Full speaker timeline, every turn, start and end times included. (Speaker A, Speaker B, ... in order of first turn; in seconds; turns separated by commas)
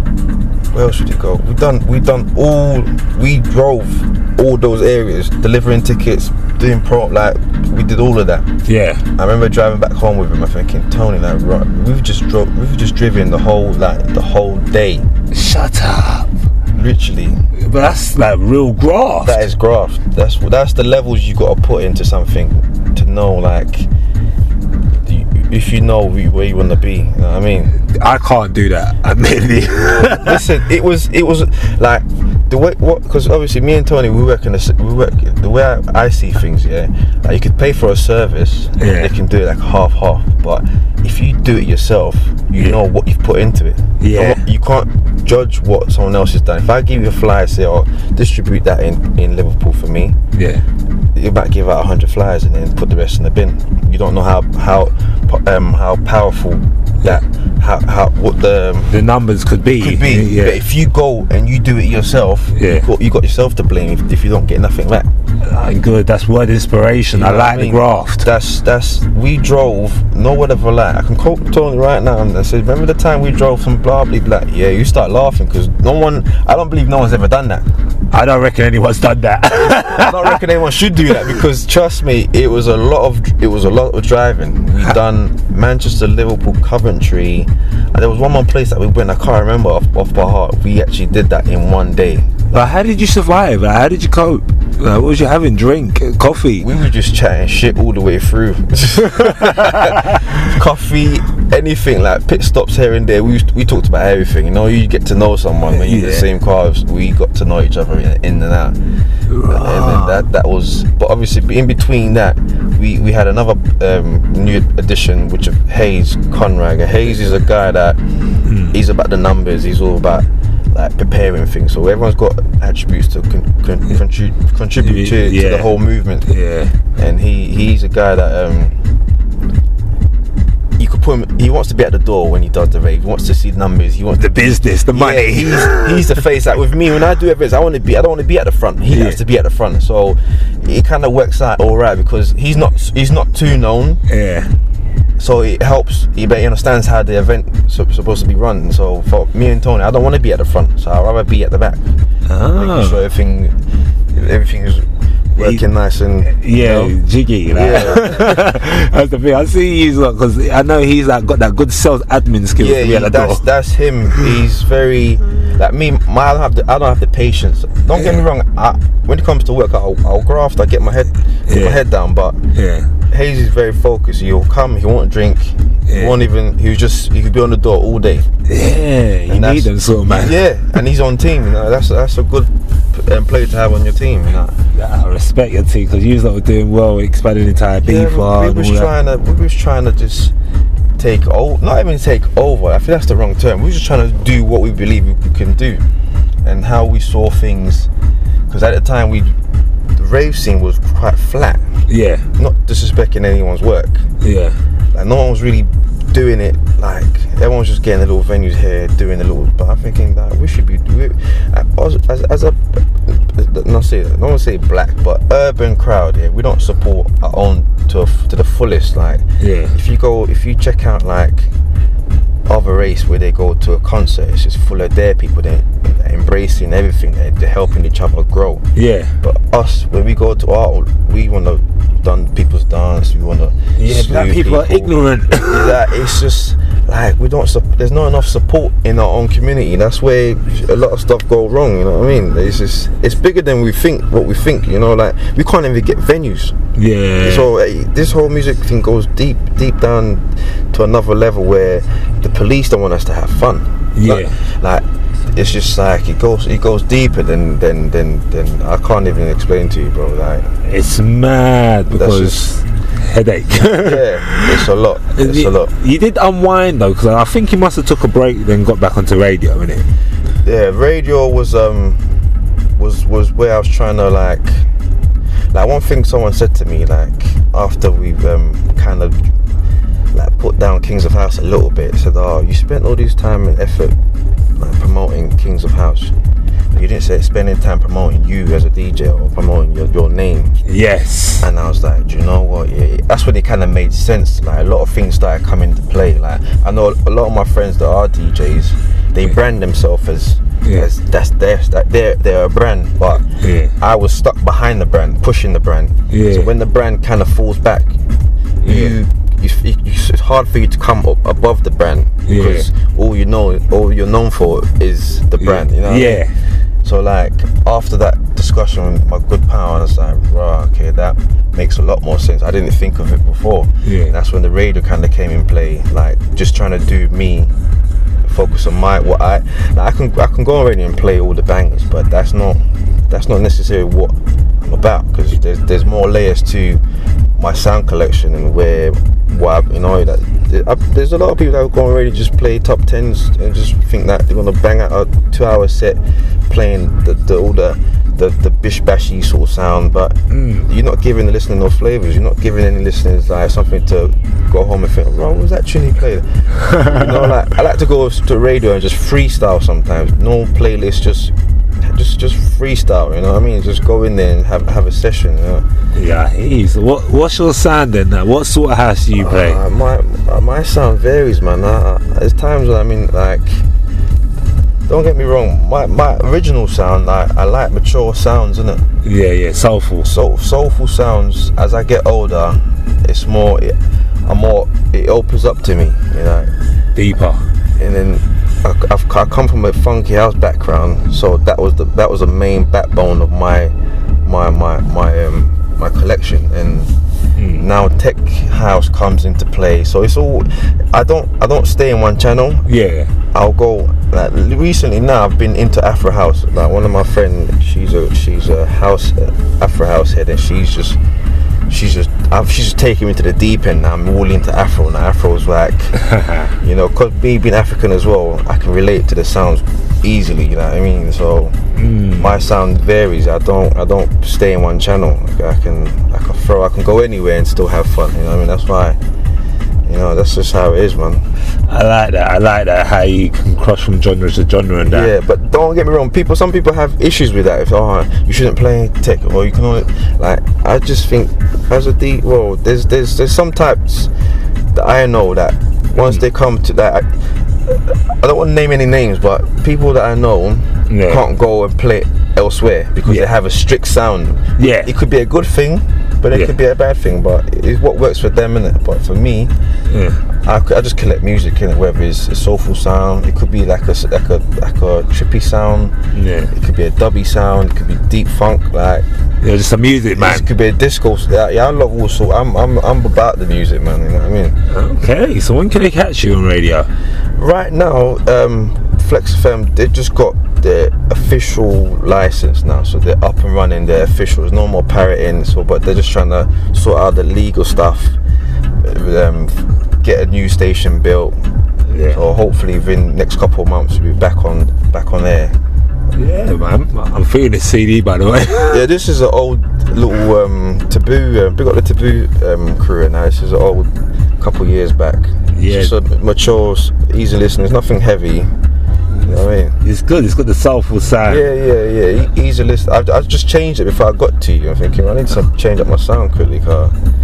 Speaker A: 0.7-8.5, Speaker B: 8.7-9.0, Speaker A: 9.2-15.1, Speaker B: 15.3-16.3, Speaker A: 16.7-17.4, Speaker B: 17.6-19.4, Speaker A: 19.2-23.9, Speaker A: 25.0-27.7, Speaker B: 27.7-30.4, Speaker A: 29.9-50.2, Speaker B: 38.8-39.1, Speaker B: 44.0-44.4, Speaker B: 50.3-50.6, Speaker A: 51.1-58.9, Speaker B: 58.9-60.6, Speaker A: 59.8-65.1, Speaker B: 62.5-62.9, Speaker B: 65.4-68.3, Speaker A: 67.1-77.7, Speaker B: 78.1-80.4, Speaker A: 79.5-92.6, Speaker B: 92.5-96.7, Speaker A: 96.6-108.8, Speaker B: 99.2-100.2, Speaker B: 105.7-106.3, Speaker B: 109.3-110.2, Speaker A: 109.4-118.0, Speaker B: 118.4-118.8, Speaker A: 118.7-126.3, Speaker B: 124.8-126.7, Speaker A: 127.0-128.8, Speaker A: 130.8-144.0, Speaker B: 134.2-136.2, Speaker B: 138.9-139.2, Speaker B: 144.1-144.5, Speaker A: 145.2-151.8, Speaker B: 152.3-153.0, Speaker A: 152.5-153.5, Speaker A: 154.1-156.9, Speaker B: 156.2-163.4, Speaker A: 157.5-158.5, Speaker A: 162.6-172.4, Speaker B: 167.9-168.2, Speaker B: 171.5-171.8, Speaker B: 172.5-172.9, Speaker A: 173.1-178.3, Speaker B: 175.9-176.1, Speaker B: 178.5-180.4, Speaker A: 179.3-184.6, Speaker B: 184.7-188.9, Speaker A: 187.8-190.3, Speaker A: 191.0-195.8, Speaker A: 196.4-197.9, Speaker A: 198.5-199.3, Speaker A: 199.9-201.6, Speaker B: 201.9-202.3, Speaker A: 202.4-204.1, Speaker B: 204.2-204.6, Speaker A: 204.9-221.5, Speaker B: 219.4-219.7, Speaker A: 222.5-228.6, Speaker B: 228.8-229.1, Speaker A: 229.2-246.5, Speaker B: 233.8-235.8, Speaker B: 246.7-247.5, Speaker A: 247.2-260.5, Speaker B: 253.9-254.3, Speaker B: 260.6-264.6, Speaker A: 261.9-262.5, Speaker A: 263.8-265.7, Speaker B: 265.1-269.9, Speaker A: 270.4-272.0, Speaker A: 272.8-274.6, Speaker A: 275.5-279.2, Speaker A: 280.1-283.9, Speaker A: 284.6-286.1, Speaker A: 286.7-290.6, Speaker B: 290.6-291.5, Speaker A: 291.4-303.2, Speaker B: 303.4-303.7, Speaker A: 303.8-307.9, Speaker B: 306.1-306.5, Speaker B: 308.6-309.0, Speaker A: 308.6-316.2, Speaker B: 312.3-312.7, Speaker B: 315.4-316.3, Speaker A: 316.8-327.5, Speaker B: 323.8-324.1, Speaker A: 328.2-336.8, Speaker A: 337.4-365.6, Speaker B: 350.3-350.7, Speaker B: 356.6-357.1, Speaker B: 365.9-369.6, Speaker A: 369.1-373.6, Speaker A: 374.9-378.8, Speaker B: 379.0-380.1, Speaker A: 380.0-386.5, Speaker B: 386.9-387.4, Speaker A: 387.8-393.7, Speaker A: 394.2-396.9, Speaker B: 397.4-397.6, Speaker A: 397.6-402.7, Speaker B: 402.7-403.1, Speaker A: 403.3-411.0, Speaker A: 411.7-416.0, Speaker B: 416.0-416.5, Speaker A: 416.6-421.6, Speaker B: 421.7-422.4, Speaker A: 422.1-429.0, Speaker A: 429.9-431.2, Speaker B: 431.7-435.1, Speaker A: 434.8-444.1, Speaker A: 444.7-459.5, Speaker B: 445.9-446.2, Speaker B: 450.9-451.2, Speaker B: 454.6-454.9, Speaker B: 459.9-460.2, Speaker A: 460.4-465.9, Speaker B: 466.1-466.5, Speaker A: 466.5-469.1, Speaker B: 469.4-470.5, Speaker A: 470.1-474.6, Speaker B: 474.7-476.9, Speaker A: 477.4-488.2, Speaker A: 488.8-491.4, Speaker B: 491.9-492.2, Speaker A: 492.1-495.6, Speaker B: 496.1-498.8, Speaker A: 498.6-508.5, Speaker B: 505.5-505.9, Speaker A: 509.2-509.8, Speaker B: 509.8-511.5, Speaker A: 511.2-516.9